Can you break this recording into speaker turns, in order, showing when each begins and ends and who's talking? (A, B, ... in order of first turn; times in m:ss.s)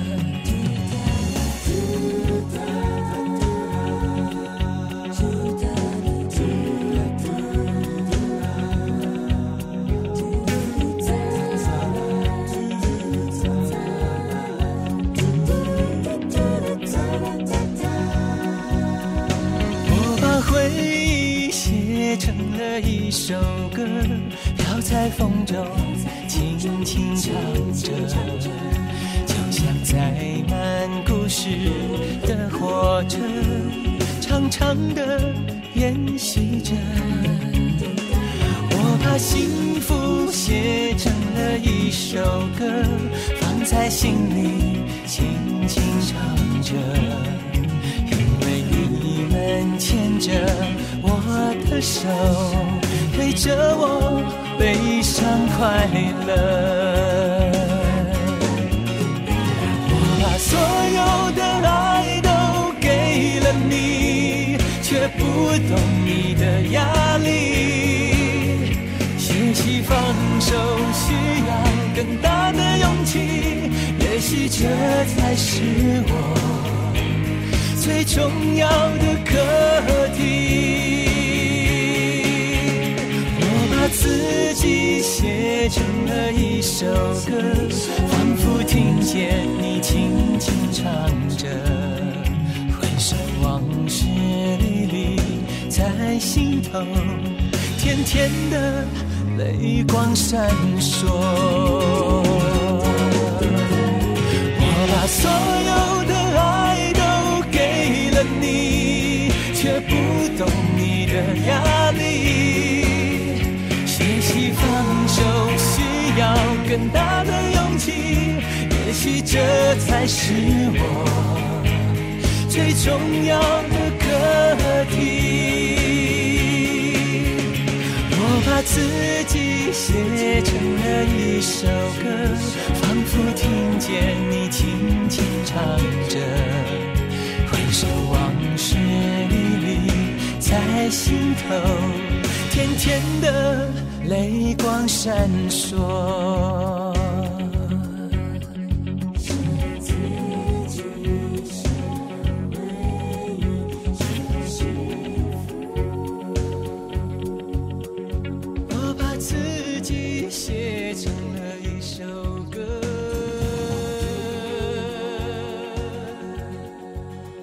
0:00.2-0:00.6 A
0:19.8-0:58.5 A
0:59.8-1:17.2 A
1:17.7-1:43.9 A
1:44.5-2:07.5 A
2:08.1-2:27.9 A
2:30.0-2:31.6 A
2:34.4-2:35.1 A
2:38.7-2:46.4 A